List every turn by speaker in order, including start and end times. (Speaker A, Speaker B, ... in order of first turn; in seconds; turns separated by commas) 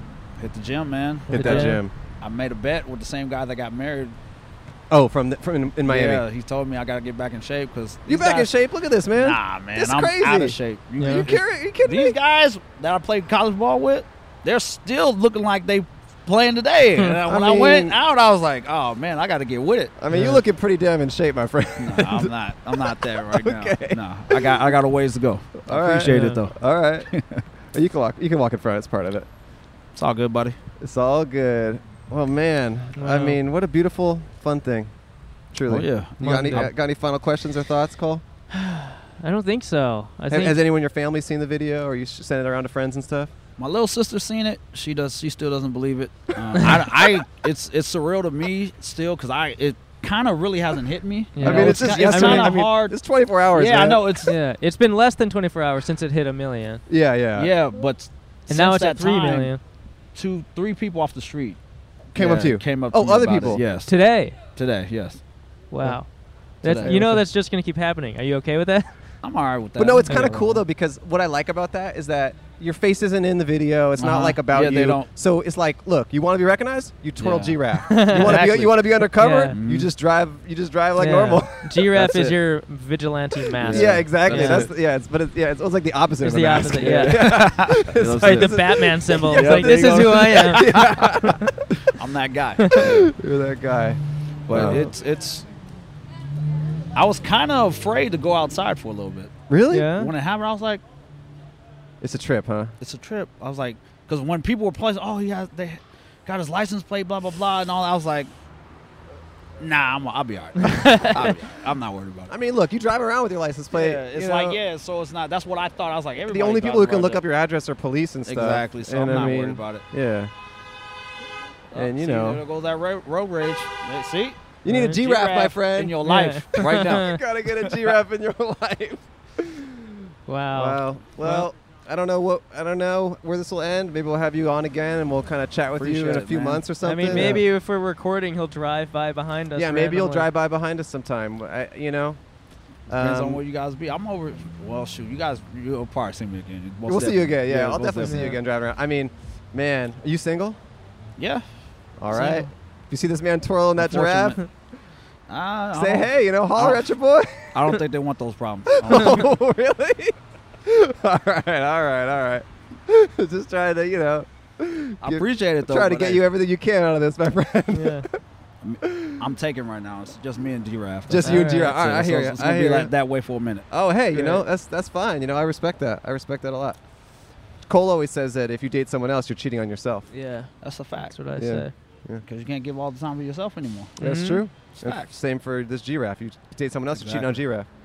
Speaker A: 0.4-4.2, Speaker B: 1.3-1.8, Speaker C: 1.3-1.9, Speaker C: 4.9-6.2, Speaker A: 5.8-8.5, Speaker C: 8.1-12.2, Speaker A: 9.1-20.0, Speaker B: 11.0-11.3, Speaker C: 17.2-18.0, Speaker C: 20.0-24.6, Speaker B: 20.1-20.4, Speaker A: 21.8-26.6, Speaker C: 25.7-27.1, Speaker B: 26.0-26.4, Speaker A: 27.1-27.4, Speaker C: 27.7-29.3, Speaker A: 29.9-30.6, Speaker C: 30.8-34.9, Speaker B: 33.0-33.4, Speaker C: 35.5-38.2, Speaker A: 35.7-36.7, Speaker B: 36.2-36.7, Speaker B: 38.5-40.6, Speaker C: 40.3-43.3, Speaker A: 43.6-53.0, Speaker B: 51.3-52.5, Speaker C: 51.4-54.3, Speaker A: 53.5-54.3, Speaker B: 54.2-56.8, Speaker C: 56.9-57.5, Speaker A: 57.3-59.5, Speaker B: 58.5-59.6, Speaker A: 60.1-61.6, Speaker C: 62.1-63.6, Speaker A: 62.1-65.2, Speaker B: 63.9-64.4, Speaker B: 65.7-68.9, Speaker A: 66.6-67.2, Speaker C: 66.7-67.1, Speaker A: 69.2-70.6, Speaker C: 69.8-81.8, Speaker B: 70.0-70.3, Speaker A: 74.0-75.1, Speaker A: 77.2-78.9, Speaker B: 77.9-79.5, Speaker A: 79.5-79.9, Speaker B: 81.0-84.7, Speaker A: 81.9-82.4, Speaker A: 83.6-84.7, Speaker C: 83.6-91.9, Speaker B: 86.2-87.4, Speaker A: 86.6-88.6, Speaker B: 88.2-91.5, Speaker A: 89.3-91.1, Speaker A: 91.9-93.1, Speaker C: 92.7-94.9, Speaker A: 94.5-95.5, Speaker A: 96.9-99.3, Speaker C: 99.5-99.9, Speaker B: 99.7-100.1, Speaker A: 100.0-100.8, Speaker C: 102.0-102.7, Speaker A: 102.8-108.3, Speaker A: 109.6-112.3, Speaker B: 110.6-111.3, Speaker C: 112.3-114.6, Speaker A: 113.7-117.2, Speaker C: 116.3-120.3, Speaker A: 118.2-119.8, Speaker A: 121.7-127.9, Speaker C: 121.7-122.4, Speaker C: 124.6-126.0, Speaker B: 124.7-125.0, Speaker B: 126.0-127.2, Speaker C: 126.5-137.4, Speaker B: 130.3-131.5, Speaker A: 135.8-137.4, Speaker B: 136.8-140.3, Speaker C: 139.5-142.2, Speaker C: 142.9-143.4, Speaker A: 142.9-148.3, Speaker C: 146.8-150.6, Speaker B: 148.0-148.4, Speaker A: 151.2-151.4, Speaker C: 152.0-154.4, Speaker A: 152.1-152.5, Speaker A: 153.8-154.4, Speaker A: 155.3-156.9, Speaker C: 155.7-157.6, Speaker A: 157.5-159.3, Speaker C: 158.8-168.2, Speaker A: 165.0-166.2, Speaker B: 167.7-168.1, Speaker A: 168.6-174.4, Speaker C: 168.8-169.2, Speaker C: 171.1-172.9, Speaker B: 171.2-171.7, Speaker C: 173.7-176.8, Speaker C: 177.7-180.1, Speaker B: 180.1-180.5, Speaker A: 180.6-181.1, Speaker B: 181.0-181.7, Speaker C: 181.4-182.2, Speaker A: 182.2-183.9, Speaker C: 184.0-187.7, Speaker B: 184.0-184.4, Speaker A: 184.7-185.1, Speaker A: 186.9-187.4